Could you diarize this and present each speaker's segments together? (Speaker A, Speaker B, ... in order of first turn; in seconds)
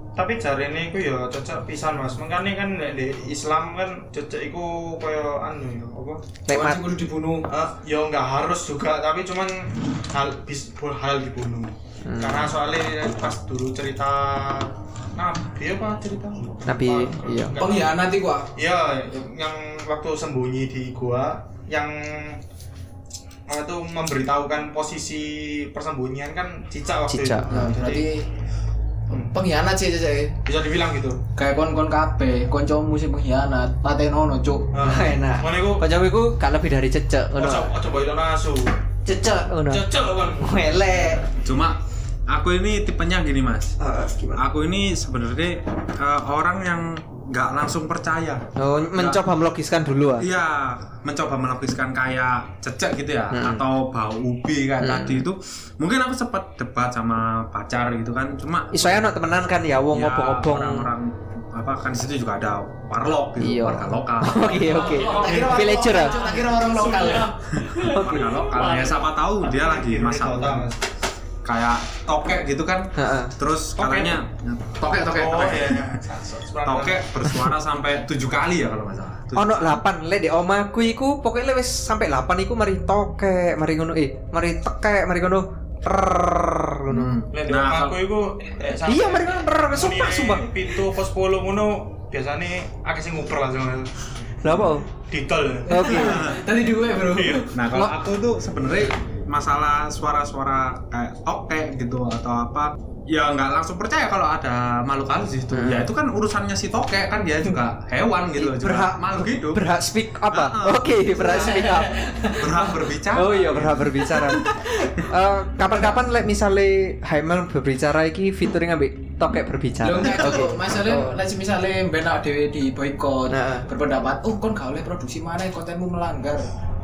Speaker A: 0.2-6.2, 7.5-22.4, 23.5-28.1, 29.1-29.4, 30.4-31.2, 34.7-35.8, 37.4-38.8, 39.7-41.0, 64.7-70.8, 73.8-74.2, 74.9-77.1, 87.3-93.9, 94.5-96.4, 97.0-97.5
Speaker B: 6.5-6.8, 12.0-12.5, 16.7-17.6, 27.1-27.7, 34.8-37.7, 39.1-39.8, 40.4-41.2, 43.8-44.4, 48.6-50.3, 53.3-53.6, 54.8-55.2, 58.7-60.9, 63.4-66.2, 67.9-68.3, 73.0-73.3, 79.3-87.2, 88.8-90.5, 94.4-94.8, 95.7-96.2, 105.5-105.9, 108.4-112.0, 113.1-121.1, 123.3-123.7
Speaker C: 6.5-7.5, 17.6-18.5, 27.5-28.2, 29.1-30.3, 31.4-34.7, 64.4-68.6, 95.7-97.5, 111.1-112.9, 115.7-116.0, 119.8-126.5
Speaker D: 41.4-43.8, 44.3-49.2, 50.2-59.0, 59.9-64.6, 67.5-70.7, 71.4-76.0, 76.6-79.8, 86.9-88.0, 96.0-96.4, 97.5-109.6, 110.3-111.1, 112.3-114.1, 120.1-120.4